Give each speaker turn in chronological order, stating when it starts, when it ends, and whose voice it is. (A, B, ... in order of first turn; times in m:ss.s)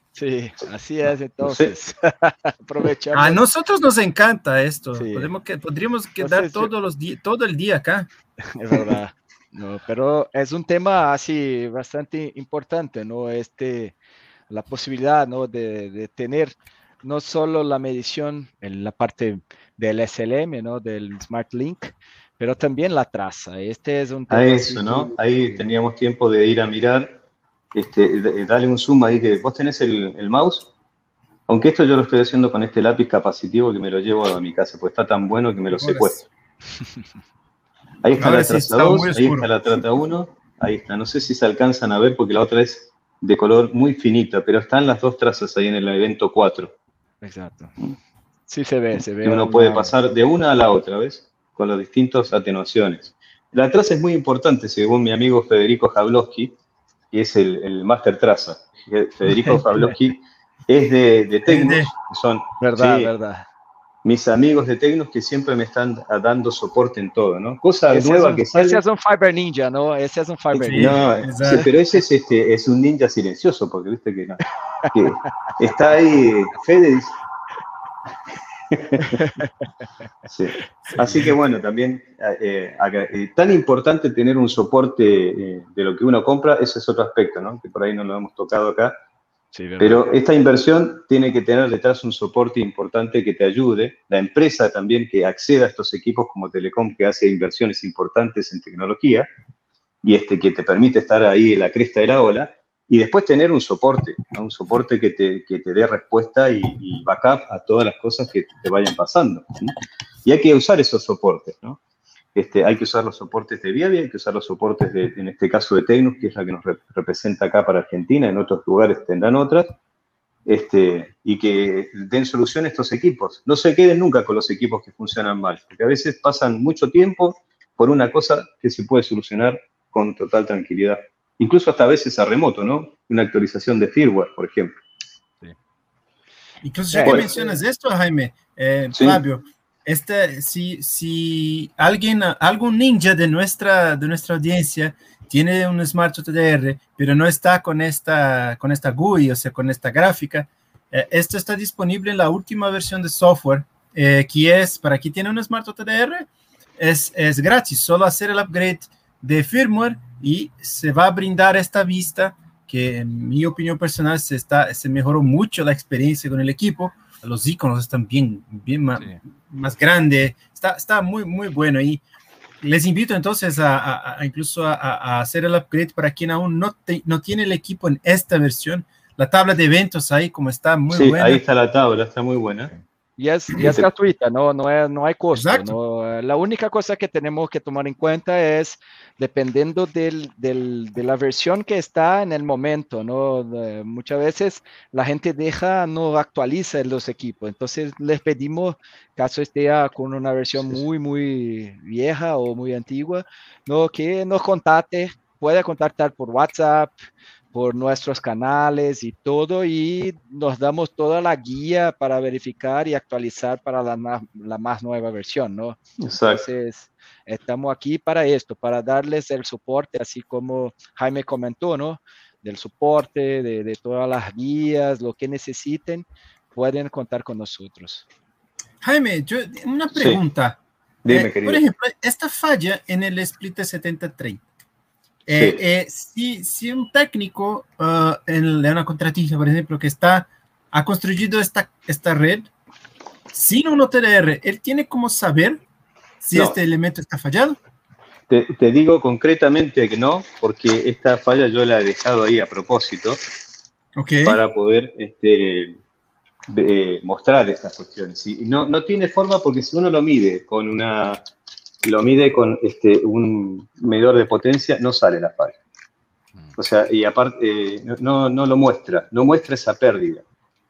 0:00.1-0:03.4 A
0:01.4-0:01.7 B
0:03.1-0:08.1 C
0:05.0-0:05.3 A
0:06.2-0:06.7 A
0:08.5-0:14.0 A
0:14.5-0:25.6 A
0:24.3-0:27.2 B
0:27.7-0:30.7 B
0:31.5-0:36.2 B
0:35.7-0:36.2 C
0:38.0-0:46.7 B
0:38.2-0:39.5 C
0:47.2-0:47.8 A
0:48.5-0:49.9 A
0:49.2-0:56.5 B
0:57.1-1:03.1 B
1:01.5-1:01.9 C
1:02.6-1:03.5 A
1:04.0-1:08.8 B
1:07.9-1:11.7 A
1:10.5-1:11.7 C
1:10.7-1:17.2 B
1:18.7-1:19.3 B
1:19.0-1:19.5 A
1:20.2-1:28.9 B
1:20.9-1:21.3 C
1:29.5-1:30.0 A
1:29.8-1:39.3 B
1:40.0-1:49.7 B
1:50.2-1:51.8 B
1:52.3-1:59.7 B
2:00.4-2:14.7 B
2:16.6-2:52.0 C
2:16.9-2:17.6 A
2:18.9-2:19.2 B
2:52.6-3:01.4 C
3:00.9-3:02.7 B
3:02.7-3:26.9 A
3:03.5-3:03.9 B
3:05.3-3:05.8 C
3:27.5-3:48.0 A
3:36.0-3:36.5 B
3:48.8-3:50.6 C
3:49.9-3:50.2 B
3:51.0-3:51.6 B
3:51.1-3:54.4 C
3:55.3-4:02.5 C
3:55.3-3:55.6 B
4:03.3-4:05.6 C
4:06.2-4:07.6 C
4:08.3-4:13.2 B
4:14.0-4:14.4 C
4:14.2-4:15.8 B
4:16.5-4:21.2 B
4:21.8-4:25.6 B
4:26.6-4:30.2 B